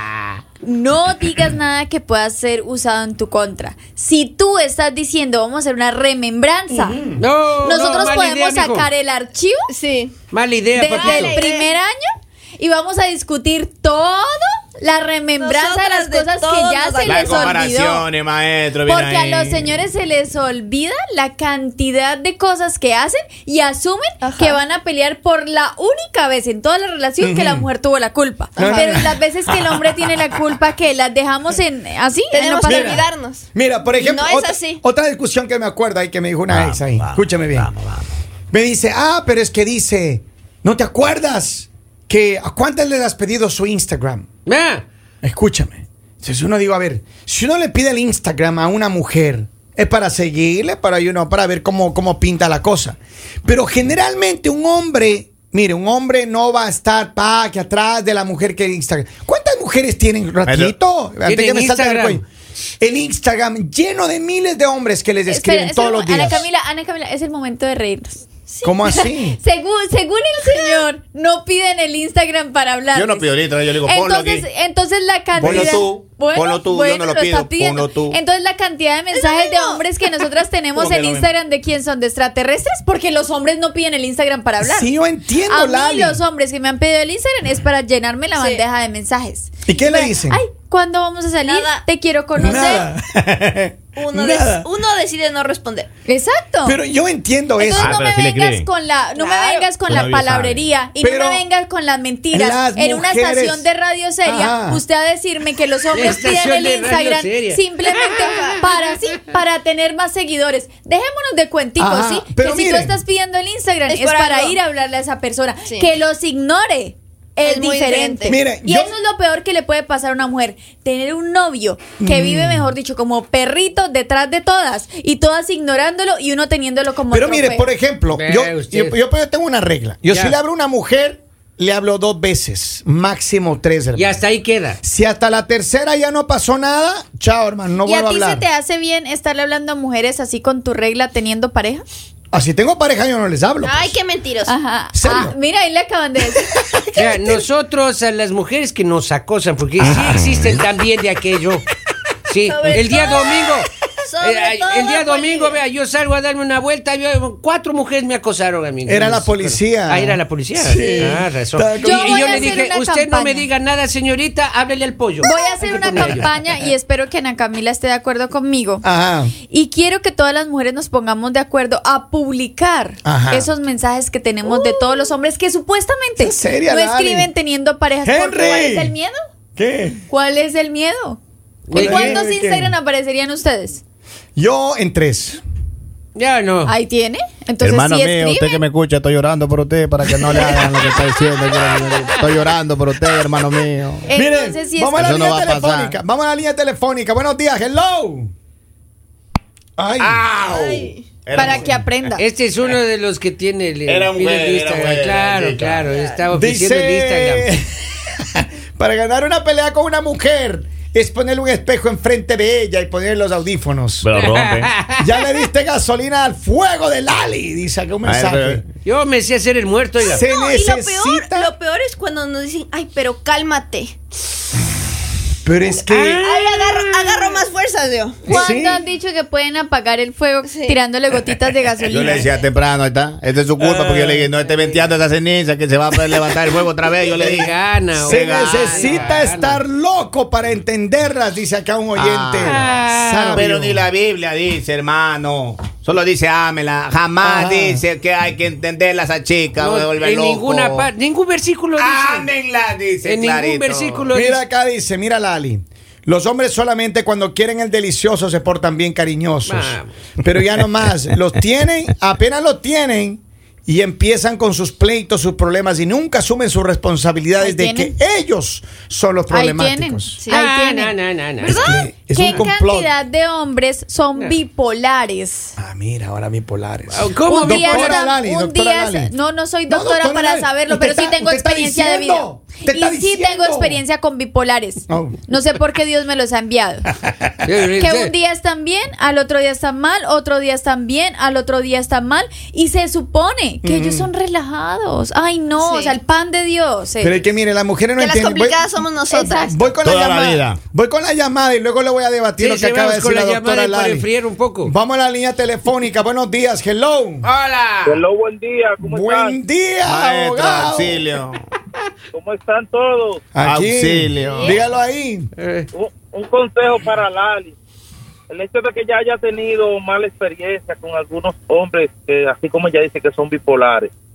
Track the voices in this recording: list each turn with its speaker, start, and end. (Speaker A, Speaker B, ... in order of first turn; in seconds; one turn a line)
Speaker A: 0.6-7.0
Speaker B: 6.7-7.2
Speaker C: 7.2-8.9
Speaker A: 7.6-9.7
Speaker D: 9.7-10.1
Speaker C: 10.3-11.4
Speaker A: 10.8-18.1
Speaker D: 10.9-11.7
Speaker D: 15.4-17.5
Speaker E: 17.0-19.8
Speaker A: 18.8-33.1
Speaker D: 24.2-24.6
Speaker B: 27.2-27.7
Speaker B: 28.6-30.0
Speaker D: 28.6-29.1
Speaker D: 32.3-34.8
Speaker B: 32.7-37.7
Speaker E: 36.5-38.1
Speaker B: 38.5-44.2
Speaker C: 44.5-44.8
Speaker B: 45.2-62.2
Speaker E: 60.5-60.7
Speaker C: 61.2-62.2
Speaker B: 62.8-66.5
Speaker A: 65.3-68.2
Speaker B: 68.6-69.4
Speaker A: 69.3-73.3
Speaker D: 70.4-70.8
Speaker E: 72.9-74.5
Speaker A: 73.8-84.9
Speaker B: 75.4-75.9
Speaker E: 75.4-78.2
Speaker D: 79.1-79.8
Speaker E: 80.7-81.3
Speaker B: 84.6-86.2
Speaker A: 85.5-92.9
Speaker D: 88.3-88.6
Speaker B: 89.7-90.4
Speaker D: 91.5-91.8
Speaker B: 92.4-94.7
Speaker D: 94.0-95.9
Speaker A: 96.1-96.8
Speaker B: 96.6-98.0
Speaker A: 97.6-127.7
Speaker E: 97.8-98.7
Speaker D: 99.2-99.7
Speaker E: 99.8-100.7
Speaker B: 101.0-101.4
Speaker B: 102.3-103.7
Speaker B: 104.2-104.8
Speaker C: 105.9-108.4
Speaker D: 108.1-108.6
Speaker B: 111.8-113.0
Speaker D: 113.9-114.6
Speaker D: 115.6-115.9
Speaker D: 117.4-118.4
Speaker B: 118.3-118.9
Speaker B: 122.0-122.7
Speaker B: 127.1-134.2
Speaker C: 128.1-129.0
Speaker C: 130.1-130.4
Speaker C: 133.9-134.8
Speaker B: 134.8-138.4
Speaker A: 137.8-141.8
Speaker B: 142.3-143.9
Speaker D: 143.6-144.5
Speaker A: 144.4-146.5
Speaker B: 144.9-145.3
Speaker B: 146.3-147.5
Speaker C: 146.9-151.7
Speaker B: 149.8-150.5
Speaker C: 152.2-166.3
Speaker D: 152.4-153.5
Speaker D: 154.0-155.6
Speaker B: 158.9-162.7
Speaker A: 161.8-163.5
Speaker A: 165.2-168.8
Speaker B: 165.8-166.3
Speaker B: 168.8-169.3
Speaker A: 169.4-179.1
Speaker B: 173.1-173.5
Speaker B: 174.5-174.8
Speaker B: 176.2-177.3
Speaker B: 178.0-178.9
Speaker B: 179.6-180.0
Speaker A: 180.1-181.2
Speaker C: 181.7-182.2
Speaker A: 181.7-183.8
Speaker B: 181.7-182.8
Speaker B: 184.4-185.4
Speaker C: 186.1-186.7
Speaker A: 186.7-188.6
Speaker E: 187.6-194.1
Speaker B: 190.1-190.8
Speaker C: 191.4-192.2
Speaker A: 194.1-195.4
Speaker B: 194.1-198.3
Speaker E: 195.0-195.9
Speaker B: 199.8-200.2
Speaker E: 200.0-201.8
Speaker D: 200.4-201.1
Speaker A: 201.3-202.2
Speaker C: 202.2-207.5
Speaker E: 203.8-205.8
Speaker D: 205.8-206.2
Speaker B: 206.3-214.1
Speaker E: 214.0-214.7
Speaker C: 214.2-215.1
Speaker B: 215.0-218.6
Speaker E: 218.0-218.6
Speaker C: 218.8-220.2
Speaker D: 220.0-224.0
Speaker B: 220.1-221.5
Speaker B: 225.4-226.2
Speaker C: 225.8-227.4
Speaker D: 226.2-228.3
Speaker B: 228.2-228.8
Speaker A: 228.3-232.3
Speaker D: 230.5-230.8
Speaker E: 231.9-238.6
Speaker B: 233.7-234.2
Speaker D: 234.4-234.7
Speaker C: 237.2-239.6
Speaker B: 238.0-243.8
Speaker D: 238.6-239.1
Speaker E: 241.9-242.7
Speaker C: 242.4-243.4
Speaker E: 243.3-250.9
Speaker B: 247.2-247.8
Speaker C: 249.6-252.3
Speaker E: 251.8-254.1
Speaker C: 253.0-254.4
Speaker B: 254.1-270.2
Speaker C: 259.4-259.9
Speaker A: 267.4-267.9
Speaker A: 269.3-270.9
Speaker C: 270.3-271.7
Speaker D: 271.4-271.9
Speaker B: 271.4-272.9
Speaker A: 272.1-275.6
Speaker B: 275.6-279.1
Speaker C: 276.9-278.0
Speaker A: 277.2-286.9
Speaker B: 279.7-283.8
Speaker B: 284.9-285.2
Speaker C: 287.4-288.1
Speaker A: 287.8-297.2
Speaker B: 293.6-294.1
Speaker D: 295.6-295.9
Speaker B: 297.0-298.6
Speaker D: 298.0-299.6
Speaker A: 299.1-299.6
Speaker B: 299.4-304.1
Speaker E: 299.8-300.6
Speaker C: 302.4-304.7
Speaker B: 304.6-307.3
Speaker E: 307.2-308.0
Speaker F: 307.8-309.4
Speaker B: 308.8-311.1
Speaker E: 309.8-311.4
Speaker F: 312.1-313.2
Speaker B: 313.3-315.3
Speaker E: 313.4-314.6
Speaker D: 314.2-314.6
Speaker C: 315.4-315.7
Speaker F: 315.7-317.6
Speaker F: 318.3-323.9